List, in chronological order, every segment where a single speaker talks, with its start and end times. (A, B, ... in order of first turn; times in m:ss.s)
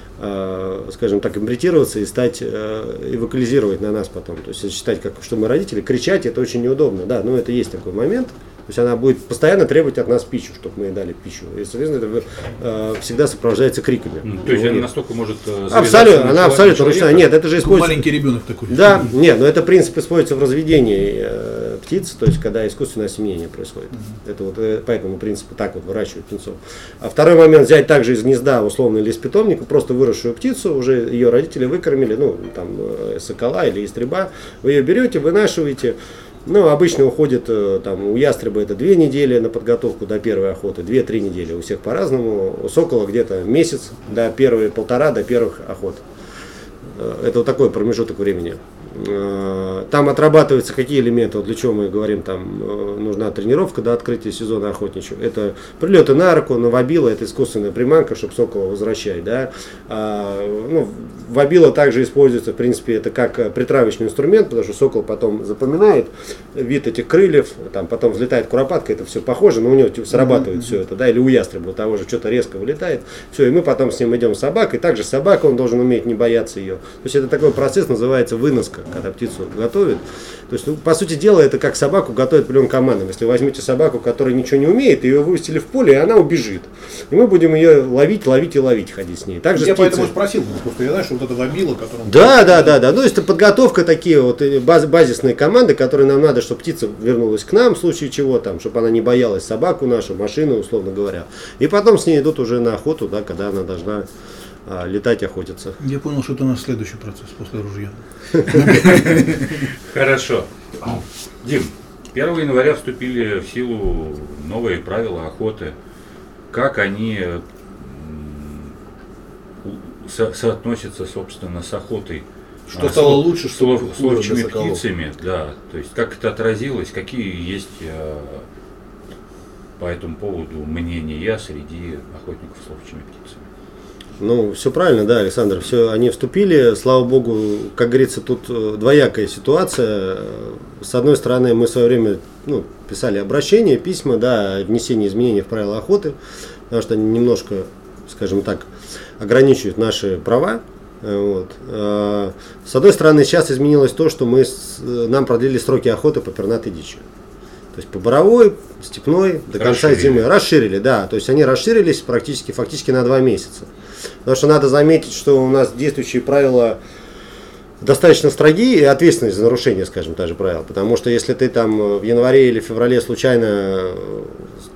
0:00.2-0:14.9 A
0:14.2-0:17.3 B
0:15.7-0:18.0 A
0:17.6-0:19.1 C
0:18.7-0:46.0 A
0:46.8-1:30.1 A
1:10.2-1:10.5 C
1:29.5-1:32.8 C
1:32.1-1:44.0 A
1:44.6-1:45.8 A
1:45.8-1:49.5 C
1:48.5-1:55.7 B
1:56.5-1:58.8 B
1:59.6-2:08.4 B
2:02.7-2:04.8 C
2:09.8-2:13.5 B
2:14.2-2:26.2 A
2:26.7-2:37.0 A
2:37.7-2:43.7 A
2:39.6-2:40.2 B
2:44.2-2:46.8 A
2:47.8-2:54.5 A